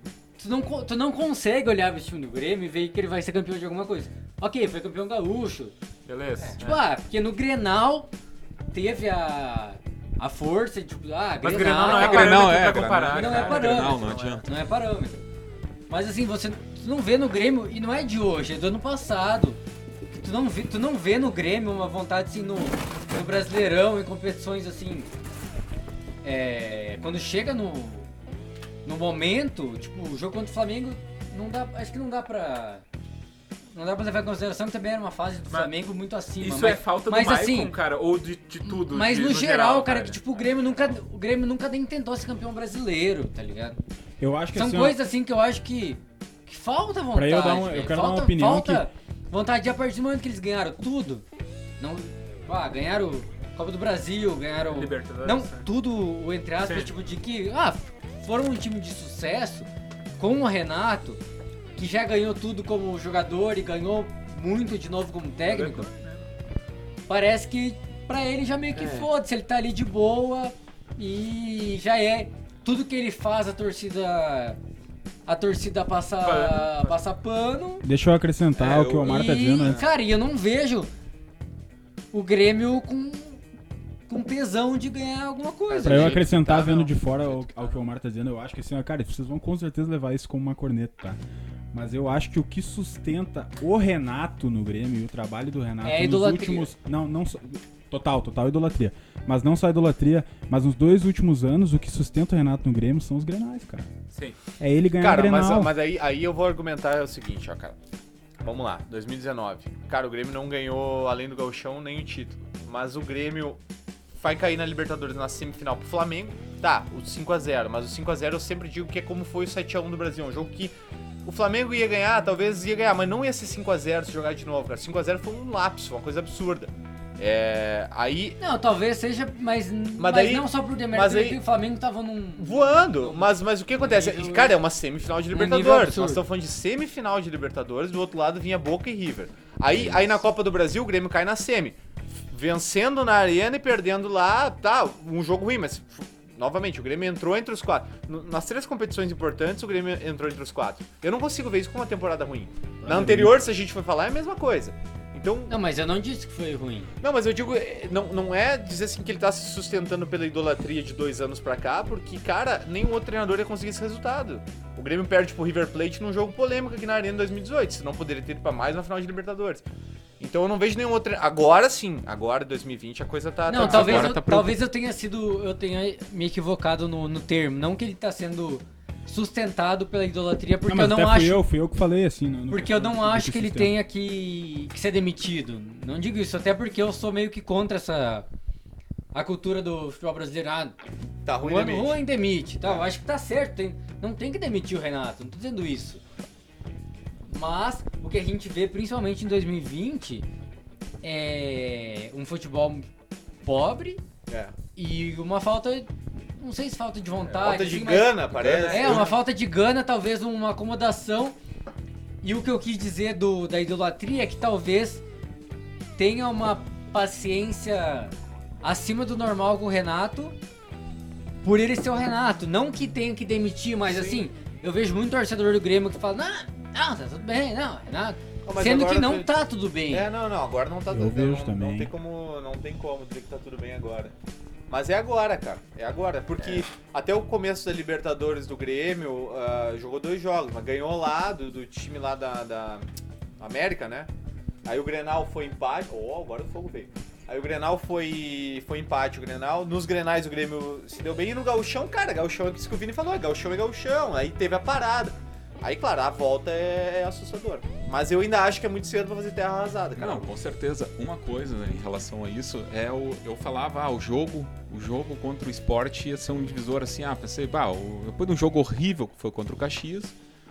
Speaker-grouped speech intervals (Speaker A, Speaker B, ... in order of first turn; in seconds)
Speaker A: 0.4-5.7, 6.4-8.1, 8.7-15.2, 15.9-25.1, 26.2-28.1, 28.8-32.8, 33.7-37.8, 38.6-43.8, 44.5-51.2, 51.8-59.7, 60.2-61.2, 61.8-65.9, 67.1-74.6, 75.2-77.8, 79.0-80.9, 82.1-83.4, 84.1-86.3, 95.8-96.7, 128.4-134.6, 135.3-136.2, 155.5-156.9, 173.4-181.4, 182.5-188.2, 189.1-190.7, 191.4-196.0, 197.3-200.2, 201.0-202.9, 203.4-204.0, 204.8-211.3, 212.2-215.0, 215.9-220.4, 221.4-230.1
Speaker B: 6.0-6.8, 11.4-14.4, 36.4-40.2, 54.6-55.6, 56.6-56.9, 65.5-66.2, 68.7-69.1, 76.2-76.9, 104.1-104.4
Speaker C: 11.8-14.4, 78.6-79.8, 139.7-140.2, 173.5-174.5, 208.3-209.1, 259.9-270.1
Speaker D: 44.2-45.0, 47.1-48.9, 77.8-79.8, 85.8-91.2, 91.7-103.9, 104.6-105.7, 152.8-153.4, 180.7-183.7, 230.9-231.9
Speaker E: 85.7-86.9, 105.0-107.8, 108.4-113.6, 114.1-120.7, 121.2-128.4, 130.0-131.4, 132.4-141.8, 142.3-155.6, 157.0-169.7, 170.2-174.4, 191.2-192.0, 192.6-192.9, 204.3-204.5, 207.3-209.2, 223.9-224.2, 228.4-229.3, 229.9-234.1, 234.7-242.9, 243.4-244.1, 244.6-260.4